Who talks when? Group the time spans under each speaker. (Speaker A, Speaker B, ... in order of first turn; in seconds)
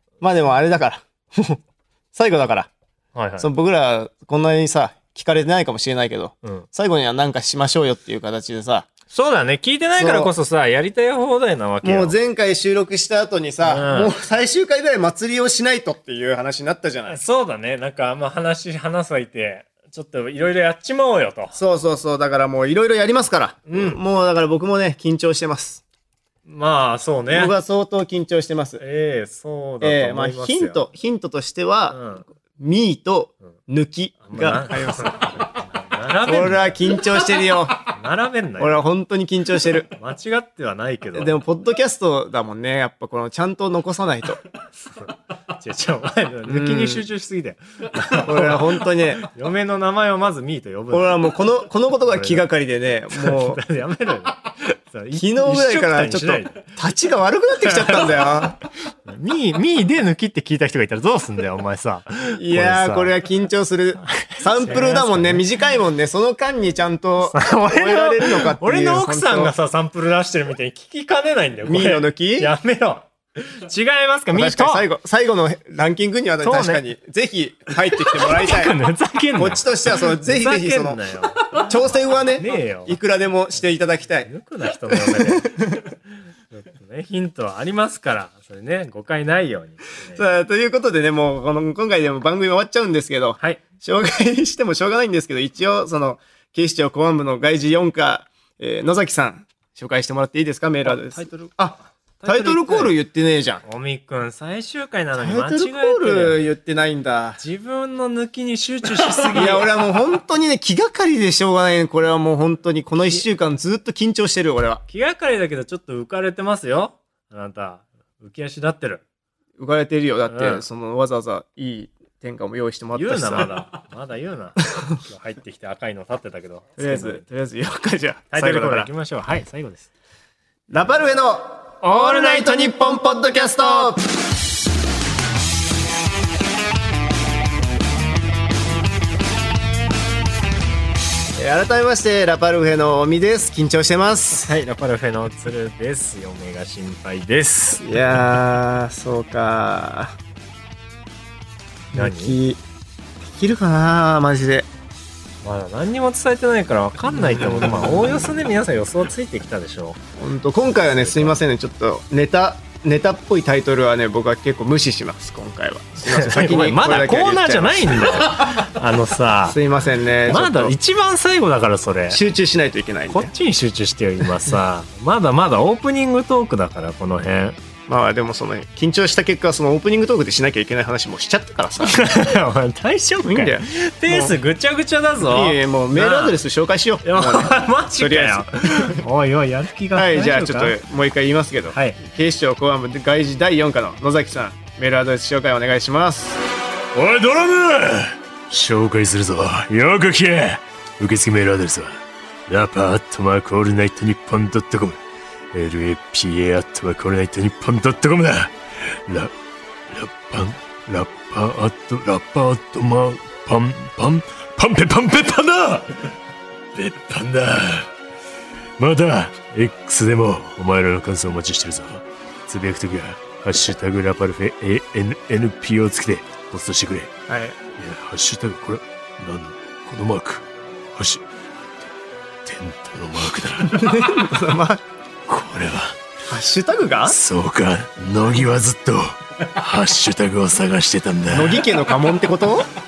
Speaker A: 0.2-1.6, 2.1-2.7, 3.4-8.9, 9.9-10.3, 11.8-17.2, 21.5-25.8, 27.3-28.8, 29.8-35.5, 36.2-37.9, 38.6-39.9, 41.1-44.4, 46.5-47.0, 48.1-49.3, 50.9-53.6, 55.1-58.6, 62.4-69.5, 71.6-72.5, 74.3-78.8, 79.3-84.3, 84.9-85.7, 90.1-103.6, 105.2-107.4, 109.2-114.8, 119.6-123.5, 126.8-128.9, 130.7-134.0, 141.3-144.5, 147.8-150.2, 151.9-152.6, 153.2-154.7, 157.2-157.9, 160.2-168.6, 169.4-170.8, 172.1-173.3, 177.9-182.2, 183.2-184.4, 185.2-189.0, 189.9-196.4, 227.3-227.6, 233.7-234.8, 236.3-237.2, 241.3-242.7
Speaker B: 3.1-3.5, 9.1-12.1, 13.6-14.1, 17.1-21.6, 23.7-24.0, 26.4-27.5, 28.8-30.8, 31.9-32.2, 34.2-36.8, 37.8-38.8, 39.9-41.4, 44.8-51.3, 52.1-52.5, 53.1-56.7, 57.6-58.5, 59.0-63.1, 64.1-65.4, 67.3-74.8, 76.4-76.8, 78.2-81.7, 82.3-83.0, 84.2-85.9, 86.5-90.2, 100.8-101.5, 102.2-102.9, 103.6-106.4, 107.4-109.7, 114.9-119.0, 120.3-120.6, 122.9-127.2, 128.3-129.9, 131.8-132.9, 144.3-147.9, 151.9-152.4, 155.4-160.0, 160.8-161.4, 166.0-169.6, 170.3-172.2, 173.1-177.6, 181.9-186.4, 187.0-190.8, 191.7-192.0, 196.9-205.0, 205.5-209.3, 209.9-216.1, 216.7-217.9, 218.8-227.1, 227.8-231.2, 232.4-234.2, 235.3-236.0, 237.1-241.6